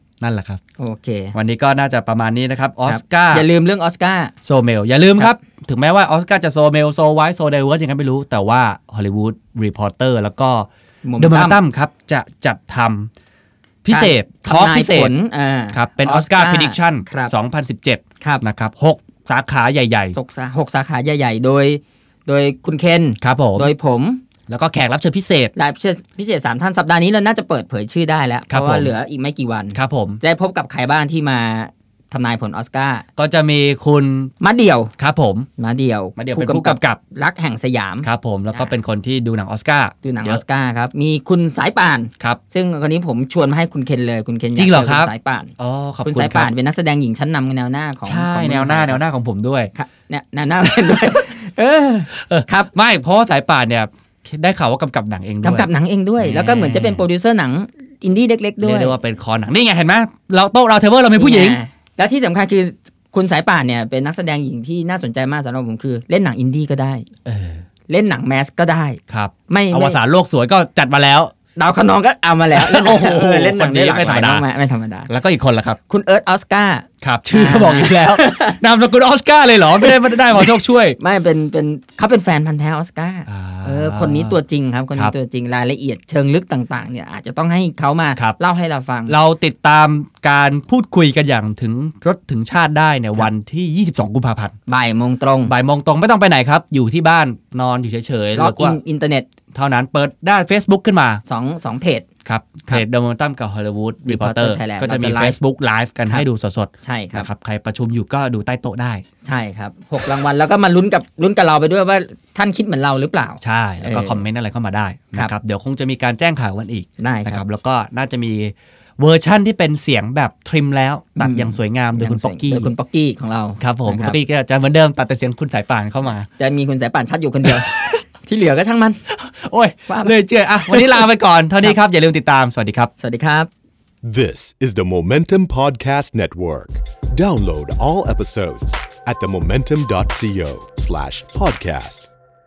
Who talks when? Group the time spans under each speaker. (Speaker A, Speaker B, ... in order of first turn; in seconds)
Speaker A: 0.2-0.6, 1.3-3.5, 4.4-13.1, 13.8-15.1, 15.7-20.1, 23.2-23.7, 24.5-25.5, 28.5-28.9, 29.7-30.2, 33.2-34.3, 35.0-35.5, 36.2-37.0, 38.0-40.4, 44.5-46.5, 48.0-49.7, 52.1-57.0, 58.6-61.6, 67.2-67.6, 69.1-71.3, 72.5-74.4, 75.1-75.8, 77.0-81.0, 83.3-84.3, 89.1-94.5, 95.5-98.8, 99.5-101.2, 102.2-109.0, 113.4-122.7, 123.6-126.3, 127.4-128.0, 129.1-132.9
Speaker B: 0.8-1.3, 2.9-4.3, 11.0-11.6, 13.9-17.3, 20.1-24.2, 25.5-33.0, 34.4-34.9, 35.6-38.7, 40.0-49.0, 49.7-52.7, 55.4-59.0, 61.1-67.1, 67.9-70.0, 71.5-75.1, 75.9-78.6, 79.8-89.1, 94.7-95.5, 98.3-99.3, 101.2-102.1, 104.0-105.3, 106.8-107.3, 109.2-114.2, 117.0-117.4, 121.2-124.2, 126.4-129.0, 129.9-130.1, 130.7-131.1, 133.0-133.5
Speaker C: 134.0-142.1